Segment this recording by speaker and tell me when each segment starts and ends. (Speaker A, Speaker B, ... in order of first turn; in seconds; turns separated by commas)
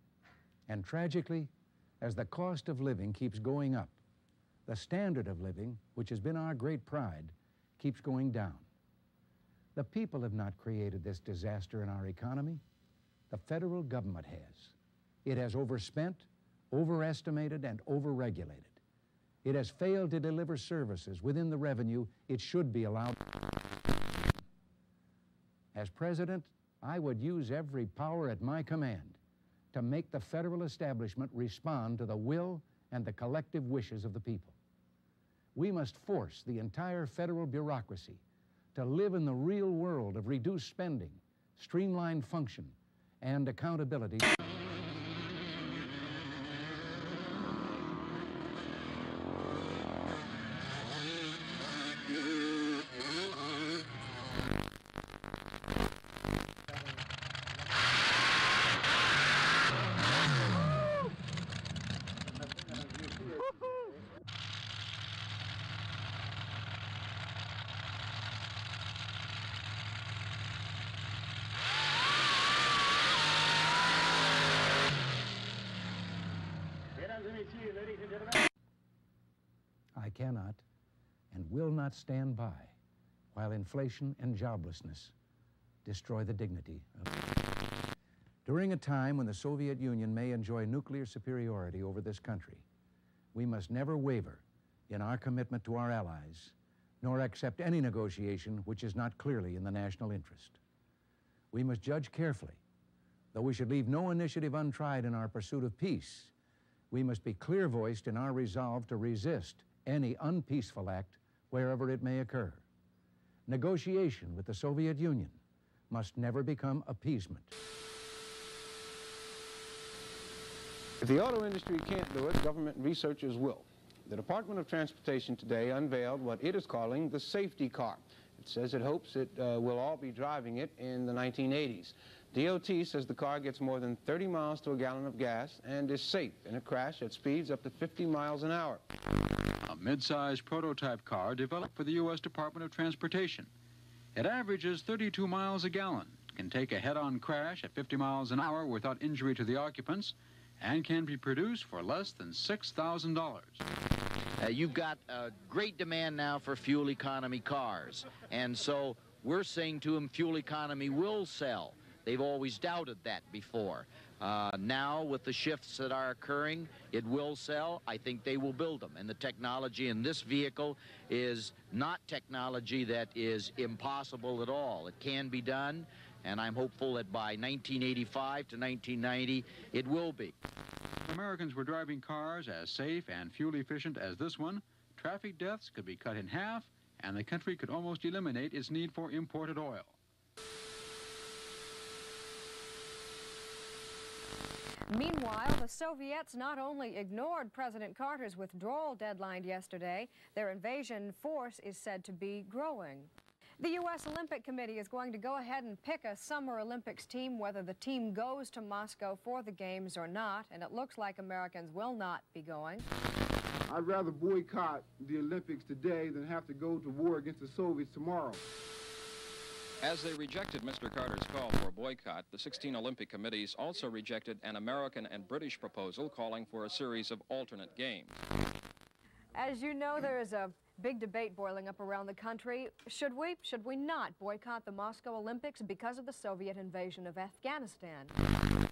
Speaker A: 0.7-4.0, Speaker A: 4.7-8.7, Speaker A: 9.8-12.6, Speaker A: 13.3-14.7, Speaker A: 15.2-18.8, Speaker A: 19.4-23.2, Speaker A: 25.7-29.2, Speaker A: 29.7-34.6, Speaker A: 35.5-38.2, Speaker A: 38.8-44.3, Speaker A: 80.0-80.6, Speaker A: 81.3-82.8, Speaker A: 83.3-85.1, Speaker A: 85.8-87.1, Speaker A: 88.5-92.6, Speaker A: 93.3-100.6, Speaker A: 101.5-102.6, Speaker A: 103.3-106.3, Speaker A: 106.9-112.7, Speaker A: 113.5-115.4, Speaker A: 115.9-117.5, Speaker B: 121.0-138.8, Speaker C: 139.6-143.5, Speaker C: 144.2-153.6, Speaker D: 154.4-180.3, Speaker C: 181.1-189.9, Speaker E: 194.9-212.9, Speaker F: 213.7-218.4, Speaker G: 219.8-228.2, Speaker E: 229.3-238.1